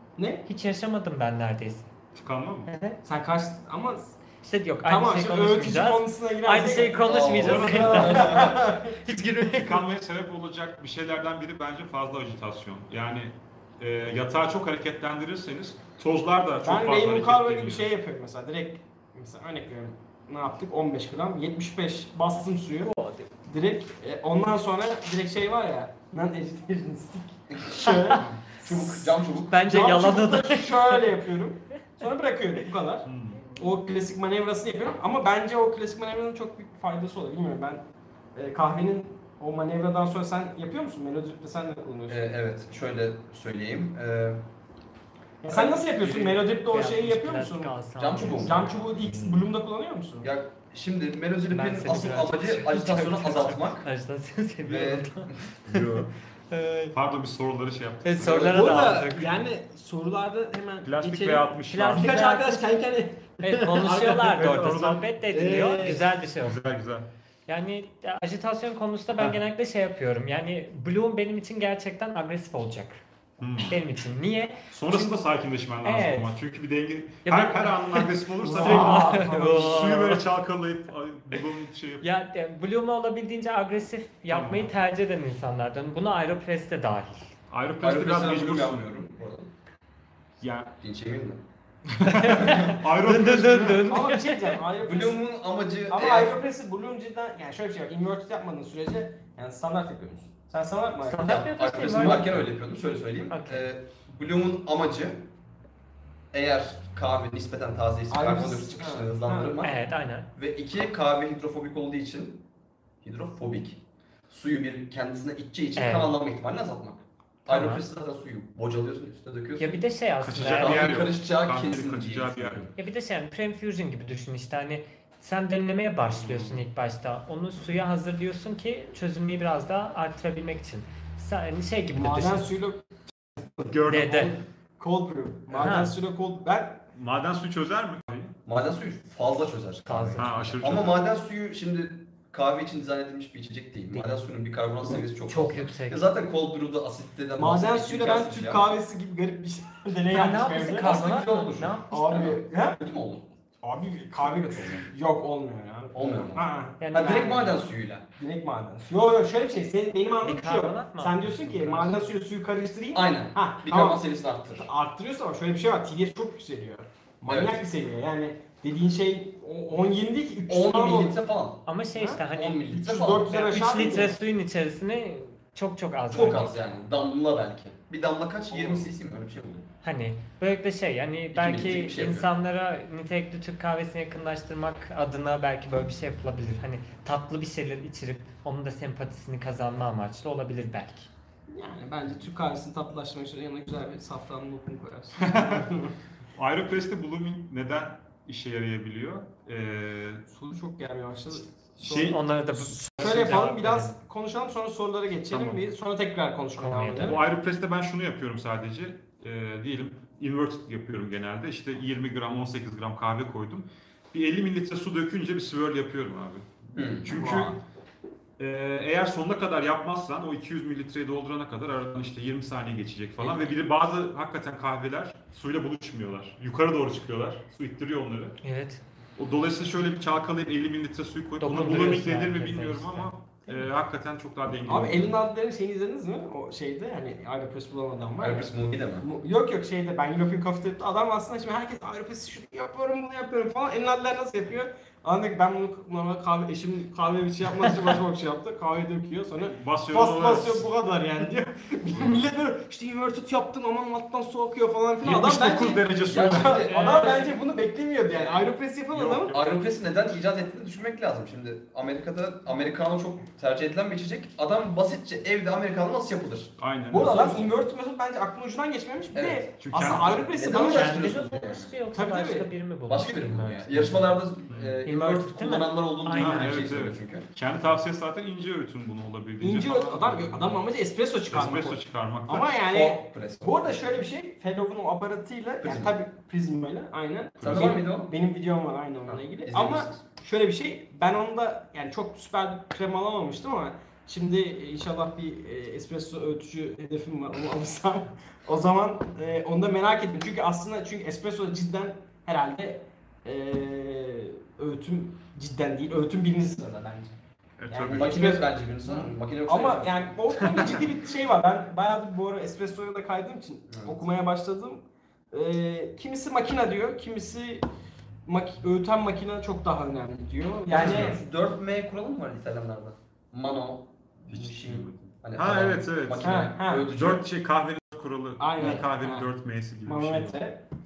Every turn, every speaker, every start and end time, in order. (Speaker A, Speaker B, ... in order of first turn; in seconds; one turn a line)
Speaker A: 0.2-0.5
Speaker B: 0.4-1.9
Speaker C: 2.1-2.7
Speaker B: 2.6-3.0
Speaker A: 3.0-4.2
Speaker B: 4.4-9.8
Speaker A: 4.8-9.0
Speaker D: 7.0-8.6
Speaker C: 7.4-8.3
Speaker C: 9.5-17.9
Speaker A: 16.6-28.3
Speaker B: 22.9-23.3
Speaker D: 27.5-27.9
Speaker B: 27.8-28.8
Speaker D: 28.6-29.6
Speaker B: 29.4-31.1
Speaker A: 29.6-37.8
Speaker C: 33.0-33.5
Speaker A: 38.3-42.3
Speaker D: 42.1-44.4
Speaker A: 45.4-50.3
Speaker D: 45.5-45.8
Speaker B: 46.0-48.8
Speaker D: 48.0-48.7
Speaker C: 49.0-49.5
Speaker D: 50.2-53.9
Speaker B: 51.5-56.9
Speaker D: 54.6-55.5
Speaker C: 55.7-56.1
Speaker C: 56.9-58.6
Speaker B: 58.0-59.4
Speaker D: 58.2-58.5
Speaker A: 58.4-64.5
Speaker C: 60.8-62.2
Speaker B: 61.7-62.7
Speaker B: 63.4-66.6
Speaker C: 64.3-65.1
Speaker A: 65.3-66.1
Speaker C: 66.4-67.1
Speaker B: 67.5-73.0
Speaker C: 73.4-73.8
Speaker B: 73.6-75.2
Speaker C: 74.7-82.0
Speaker B: 75.8-76.3
Speaker B: 77.2-80.2
Speaker A: 78.4-79.9
Speaker B: 82.0-87.3
Speaker C: 84.3-84.7
Speaker C: 87.5-88.9
Speaker D: 87.8-89.5
Speaker C: 90.4-90.7
Speaker D: 90.8-91.4
Speaker C: 91.9-94.0
Speaker B: 92.0-94.6
Speaker D: 92.3-92.7
Speaker A: 93.9-95.2
Speaker D: 94.8-96.4
Speaker A: 95.9-102.3
Speaker B: 101.0-102.3
Speaker D: 101.2-105.3
Speaker B: 103.3-103.7
Speaker D: 106.3-109.8
Speaker A: 108.1-109.6
Speaker B: 109.6-110.3
Speaker D: 110.3-112.4
Speaker D: 113.0-122.7
Speaker B: 115.8-116.1
Speaker B: 117.5-117.8
Speaker B: 119.6-121.0
Speaker C: 120.2-122.7
Speaker B: 122.8-132.5
Speaker C: 126.1-126.6
Speaker A: 131.9-136.8
Speaker C: 133.7-134.2
Speaker B: 133.9-134.3
Speaker B: 135.5-135.9
Speaker C: 136.9-138.3
Speaker D: 138.4-148.7
Speaker B: 139.8-140.4
Speaker C: 140.2-141.0
Speaker B: 145.2-146.1
Speaker A: 147.3-151.0
Speaker B: 150.1-152.2
Speaker D: 150.7-153.3
Speaker A: 151.9-152.8
Speaker A: 153.6-157.6
Speaker D: 155.9-158.1
Speaker B: 156.8-157.4
Speaker A: 158.2-164.0
Speaker B: 160.2-162.0
Speaker D: 162.9-164.7
Speaker A: 164.6-171.2
Speaker D: 167.3-167.6
Speaker D: 170.5-171.7
Speaker B: 171.7-172.7
Speaker A: 171.9-174.2
Speaker D: 172.3-173.3
Speaker B: 173.3-176.6
Speaker D: 176.1-179.7
Speaker A: 178.5-178.8
Speaker B: 179.8-191.1
Speaker D: 181.3-182.3
Speaker A: 191.5-195.9
Speaker C: 195.2-195.7
Speaker C: 196.3-200.2
Speaker A: 200.3-202.2
Speaker C: 201.8-203.5
Speaker B: 201.9-204.0
Speaker A: 203.0-207.2
Speaker C: 205.3-205.6
Speaker B: 206.6-207.2
Speaker C: 207.0-217.6
Speaker D: 216.7-217.3
Speaker A: 217.1-217.5
Speaker C: 218.4-228.4
Speaker B: 228.4-228.8
Speaker C: 229.2-235.2
Speaker B: 231.4-233.1
Speaker A: 234.7-259.3
Speaker D: 238.2-239.1
Speaker C: 249.4-250.7
Speaker C: 251.9-252.2
Speaker C: 255.0-256.8
Speaker D: 256.1-257.3
Speaker B: 256.7-257.3
Speaker D: 258.1-258.5
Speaker C: 258.9-259.5
Speaker D: 259.2-267.5
Speaker C: 266.6-267.3
Speaker A: 266.9-271.1
Speaker D: 269.1-271.7
Speaker C: 269.6-270.3
Speaker B: 270.5-274.2
Speaker A: 271.9-272.5
Speaker D: 272.9-277.3
Speaker C: 274.5-274.8
Speaker B: 274.8-276.7
Speaker C: 276.1-280.6
Speaker A: 279.4-307.1
Speaker C: 281.3-282.6
Speaker D: 282.7-284.0
Speaker D: 285.6-286.0
Speaker C: 287.4-287.8
Speaker D: 287.4-288.1
Speaker D: 289.1-290.0
Speaker C: 307.6-308.3
Speaker A: 307.7-317.6
Speaker D: 307.9-310.8
Speaker C: 310.4-310.8
Speaker D: 313.7-314.0
Speaker A: 318.2-321.2
Speaker D: 320.7-327.3
Speaker C: 320.8-321.2
Speaker C: 324.3-330.4
Speaker A: 326.2-326.9
Speaker A: 328.4-329.3
Speaker A: 329.9-330.6